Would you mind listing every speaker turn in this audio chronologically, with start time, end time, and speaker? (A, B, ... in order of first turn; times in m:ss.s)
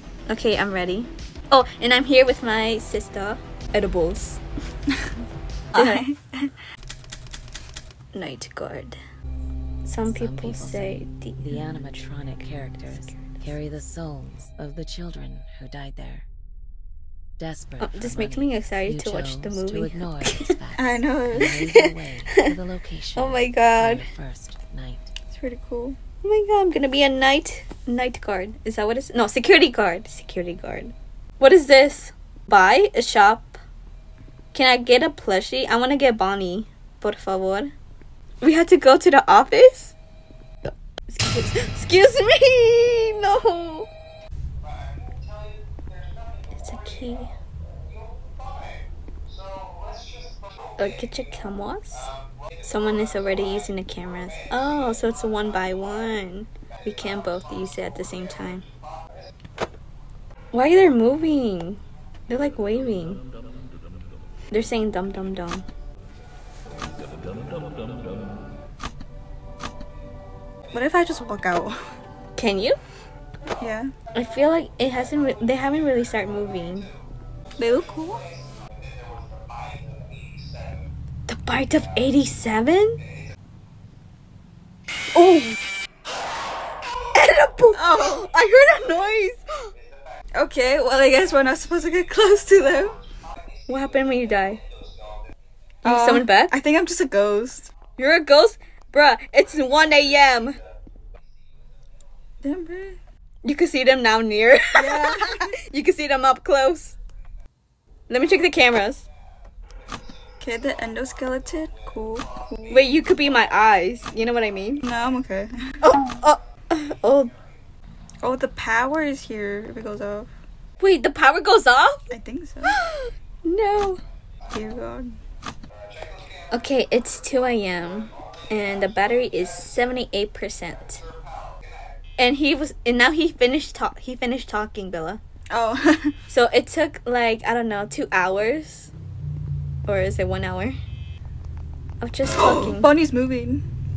0:00.3-0:04.4 A
0:05.7-0:06.1 A
0:05.7-0:06.5 B
0:08.1-0:09.0 A
0:09.8-0:11.6 A
0:10.1-0:16.2 C
0:17.4-0:25.1 C
0:17.8-0:20.5 A
0:20.8-0:21.6 B
0:21.4-0:22.5 A
0:23.1-0:24.1 A
0:25.3-0:26.0 B
0:26.2-0:33.6 A
0:34.5-0:37.7 A
0:38.4-0:39.9 A
0:40.6-0:43.9 A
0:46.6-0:47.3 A
0:50.8-0:52.1 A
0:52.6-0:58.7 A
1:00.5-1:03.2 A
1:04.5-1:05.7 A
1:10.7-1:11.8 B
1:12.4-1:12.8 A
1:13.6-1:13.9 B
1:14.1-1:16.9 A
1:17.6-1:18.2 B
1:21.3-1:23.0 A
1:25.2-1:25.6 A
1:27.1-1:28.1 A
1:27.7-1:29.4 B
1:30.3-1:33.0 B
1:33.7-1:34.6 A
1:35.8-1:36.5 A
1:35.8-1:37.7 B
1:38.0-1:40.6 A
1:42.4-1:43.0 B
1:43.4-1:47.0 A
1:44.8-1:45.6 B
1:48.1-1:49.1 A
1:50.4-1:52.8 B
1:52.7-1:54.8 A
1:54.8-1:55.8 B
1:55.8-1:57.3 A
1:58.2-2:00.3 B
2:00.8-2:02.1 A
2:02.1-2:02.8 B
2:02.6-2:04.0 A
2:04.5-2:05.2 B
2:06.5-2:11.0 A
2:12.2-2:15.2 A
2:15.5-2:16.1 B
2:16.3-2:18.9 A
2:19.8-2:20.8 A
2:22.0-2:22.9 A
2:22.4-2:23.7 B